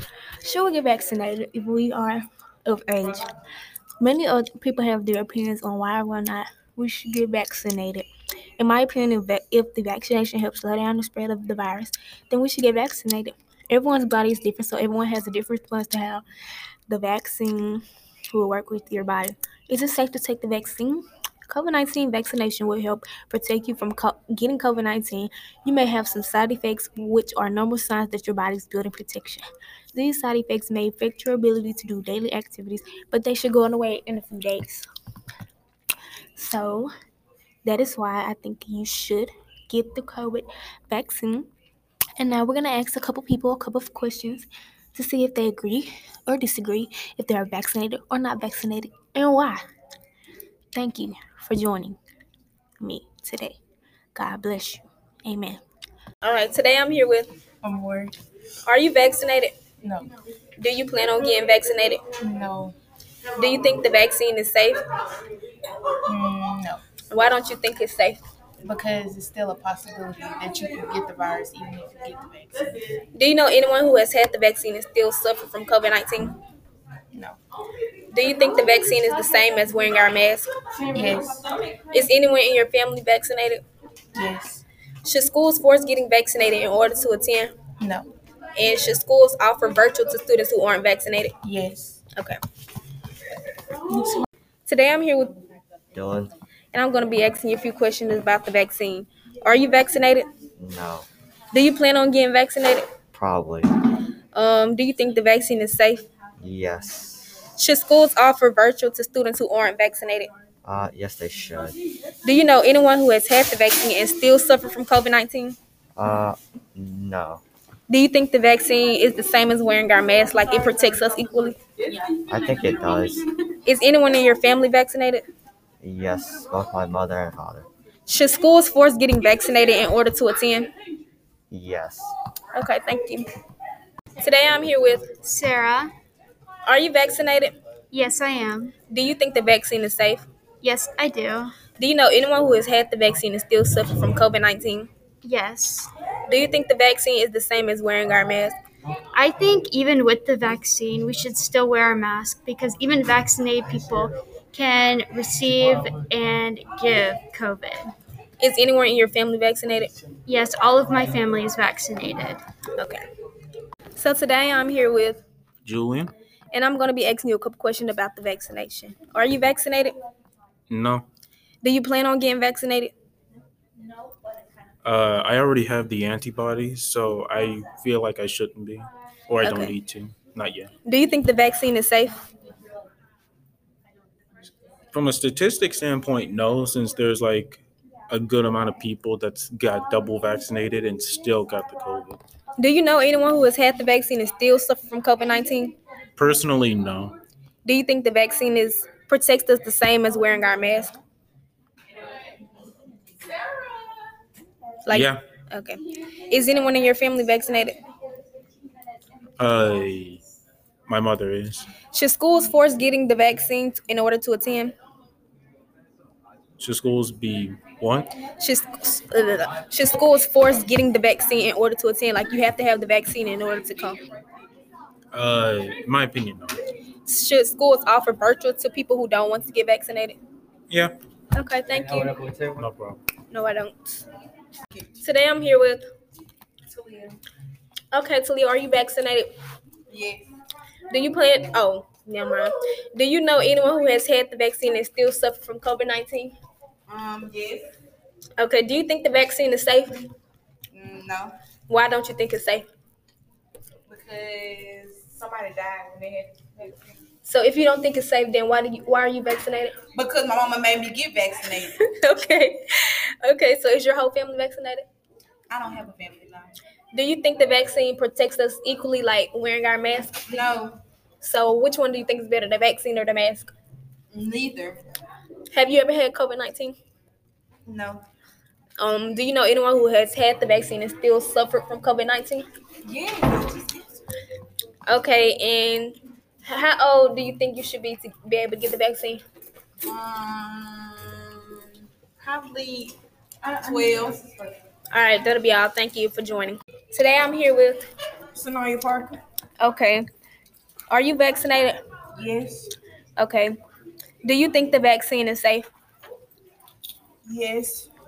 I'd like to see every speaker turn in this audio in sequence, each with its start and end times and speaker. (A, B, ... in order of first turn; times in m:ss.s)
0:00.4-0:03.2 A
0:04.0-0:08.1 A
0:08.6-0:16.2 A
0:16.9-0:34.9 A
0:36.3-0:36.9 A
0:37.6-0:41.5 A
0:42.2-0:49.6 A
0:50.7-0:52.0 A
0:52.8-0:53.6 A
0:54.1-0:55.6 A
0:56.2-0:57.3 A
0:57.6-0:58.1 B
0:58.6-0:59.6 A
0:59.8-1:00.1 B
1:00.6-1:02.0 A
1:02.2-1:02.7 B
1:03.4-1:04.8 A
1:06.0-1:06.8 B
1:07.1-1:08.2 A
1:08.6-1:12.8 B
1:13.1-1:16.3 A
1:18.1-1:20.5 A
1:20.9-1:21.4 B
1:21.9-1:23.6 A
1:24.1-1:24.6 B
1:25.0-1:27.5 A
1:27.8-1:28.1 B
1:28.6-1:31.3 A
1:31.4-1:32.0 B
1:33.9-1:34.2 B
1:34.6-1:35.3 A
1:35.9-1:36.3 C
1:36.7-1:40.3 A
1:40.6-1:41.1 C
1:41.5-1:42.9 A
1:43.1-1:43.7 C
1:44.3-1:46.0 A
1:46.4-1:47.3 C
1:47.6-1:50.3 A
1:50.6-1:51.8 C
1:52.2-1:55.6 A
1:56.0-1:57.4 C
1:57.9-2:01.6 A
2:02.1-2:03.3 C
2:03.6-2:05.3 A
2:05.8-2:07.7 C
2:08.0-2:10.7 A
2:11.5-2:12.1 C
2:12.5-2:13.2 A
2:14.2-2:15.1 A
2:15.1-2:15.9 D
2:16.6-2:17.5 A
2:17.9-2:18.7 D
2:18.9-2:20.2 A
2:20.6-2:21.5 D
2:21.8-2:24.9 A
2:25.2-2:25.9 D
2:26.3-2:28.6 A
2:29.1-2:37.9 D
2:38.4-2:39.9 A
2:40.2-2:42.4 D
2:42.8-2:43.0 A
2:43.9-2:45.2 A
2:45.6-2:46.1 E
2:46.5-2:49.9 A
2:50.7-2:51.0 E
2:51.6-2:52.9 A
2:54.8-3:00.7 E
2:59.4-2:59.7 A
3:00.8-3:02.2 A
3:04.9-3:12.2 E
3:12.6-3:15.7 A
3:16.2-3:17.1 E
3:17.6-3:20.9 A
3:24.8-3:27.8 A
3:24.9-3:25.2 E
3:29.4-3:30.2 E
3:30.9-3:31.7 E
3:31.9-3:34.7 A
3:36.6-3:38.1 E
3:38.4-3:44.0 A
3:45.1-3:46.6 E
3:47.0-3:50.2 A
3:50.7-3:50.9 E
3:51.3-3:52.2 A
3:52.5-3:53.0 E
3:53.3-3:54.0 A
3:55.0-3:55.8 A
3:56.7-3:57.2 B
3:57.9-3:59.3 A
3:59.9-4:00.2 B
4:00.9-4:06.3 A
4:06.9-4:07.7 B
4:08.4-4:10.0 A
4:10.7-4:11.3 B
4:11.7-4:12.6 A
4:13.9-4:17.0 B
4:17.2-4:19.7 A
4:19.9-4:21.8 B
4:21.8-4:24.8 A
4:25.5-4:26.5 B
4:26.9-4:30.2 A
4:30.3-4:30.8 B
4:31.2-4:33.5 A
4:34.1-4:34.8 B
4:35.5-4:36.8 A
4:37.6-4:38.0 B
4:38.8-4:42.4 A
4:42.8-4:43.9 B
4:44.9-4:49.2 A
4:49.8-4:51.7 B
4:52.2-4:54.5 B
4:54.9-4:57.8 A
4:58.3-4:59.2 B
4:59.6-5:00.0 A
5:00.9-5:01.8 A
5:02.2-5:02.7 B
5:03.2-5:03.5 A
5:04.2-5:05.7 A
5:07.2-5:07.9 B